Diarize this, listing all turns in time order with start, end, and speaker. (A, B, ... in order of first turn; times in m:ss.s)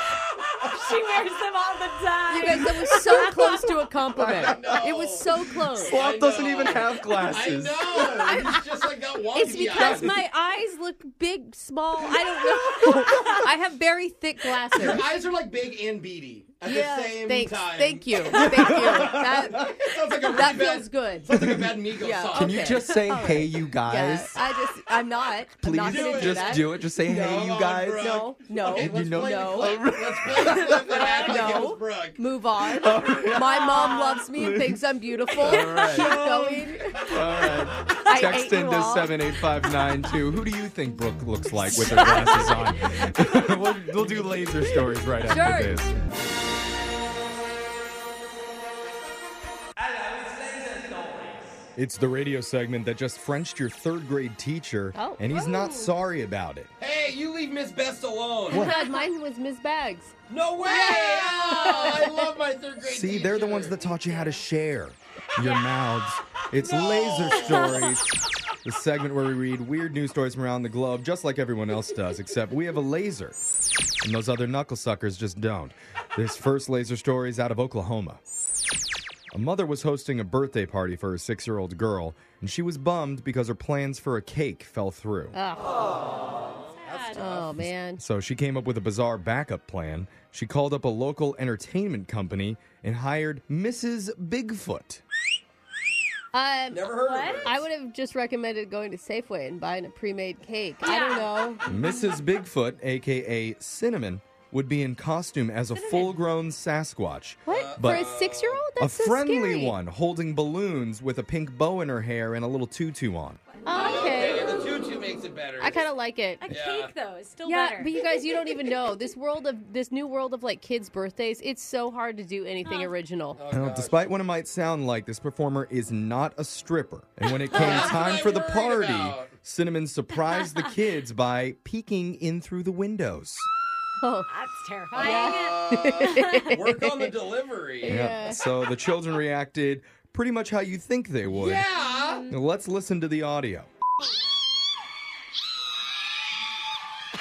0:00.4-0:03.8 A
0:02.3-0:06.0 B
0:04.1-0:04.9 C
0:04.4-0:05.3 D
0:05.7-0:08.3 C
0:05.8-0:10.1 D
0:08.0-0:08.6 B
0:09.3-0:15.0 B
0:12.8-0:13.4 A
0:14.8-0:22.8 D
0:16.6-0:21.3 B
0:18.3-0:19.5 C
0:21.3-0:21.8 C
0:22.0-0:26.7 B
0:22.3-0:24.6 C
0:25.6-0:30.9 C
0:25.8-0:32.2 D
0:28.0-0:29.8 B
0:30.5-0:37.0 B
0:30.9-0:31.7 A
0:32.7-0:34.8 C
0:33.5-0:34.2 A
0:35.4-0:36.2 C
0:35.5-0:36.7 D
0:35.6-0:36.3 A
0:37.1-0:45.9 C
0:38.0-0:39.1 B
0:41.7-0:43.0 A
0:45.2-0:45.8 A
0:45.3-0:45.7 B
0:49.8-0:51.6 D
0:51.7-0:56.7 C
0:54.9-0:55.3 B
0:55.4-0:55.7 A
0:56.8-0:58.7 D
0:58.5-1:00.1 B
0:58.5-0:58.8 C
0:58.5-0:59.0 A
1:00.3-1:03.8 D
1:00.7-1:01.0 A
1:00.8-1:02.0 B
1:02.8-1:08.1 C
1:05.4-1:05.6 A
1:06.6-1:07.9 D
1:07.2-1:07.9 A
1:08.6-1:13.4 C
1:14.0-1:18.2 C
1:19.3-1:25.4 C
1:25.3-1:26.2 B
1:26.8-1:27.3 A
1:26.8-1:27.6 D
1:27.2-1:28.0 B
1:28.0-1:35.0 C
1:36.3-1:36.9 B
1:36.7-1:37.6 D
1:37.0-1:37.5 A
1:37.4-1:41.6 B
1:40.8-1:42.1 A
1:41.6-1:48.1 C
1:45.7-1:46.2 A
1:47.4-1:49.8 B
1:47.5-1:48.6 D
1:48.8-1:53.4 C
1:53.5-1:54.6 A
1:53.6-1:54.6 B
1:53.7-1:55.8 D
1:55.6-1:56.4 B
1:56.4-1:58.0 A
1:56.5-1:56.9 D
1:57.4-2:03.4 B
2:02.6-2:02.9 A
2:03.4-2:04.0 D
2:03.5-2:13.5 C
2:07.5-2:09.3 D
2:07.5-2:08.3 A
2:14.0-2:14.3 B
2:14.3-2:16.6 A
2:14.9-2:18.0 D
2:14.9-2:17.1 B
2:17.8-2:18.4 B
2:17.8-2:21.7 C
2:21.3-2:22.3 D
2:21.8-2:22.4 A
2:22.3-2:23.7 C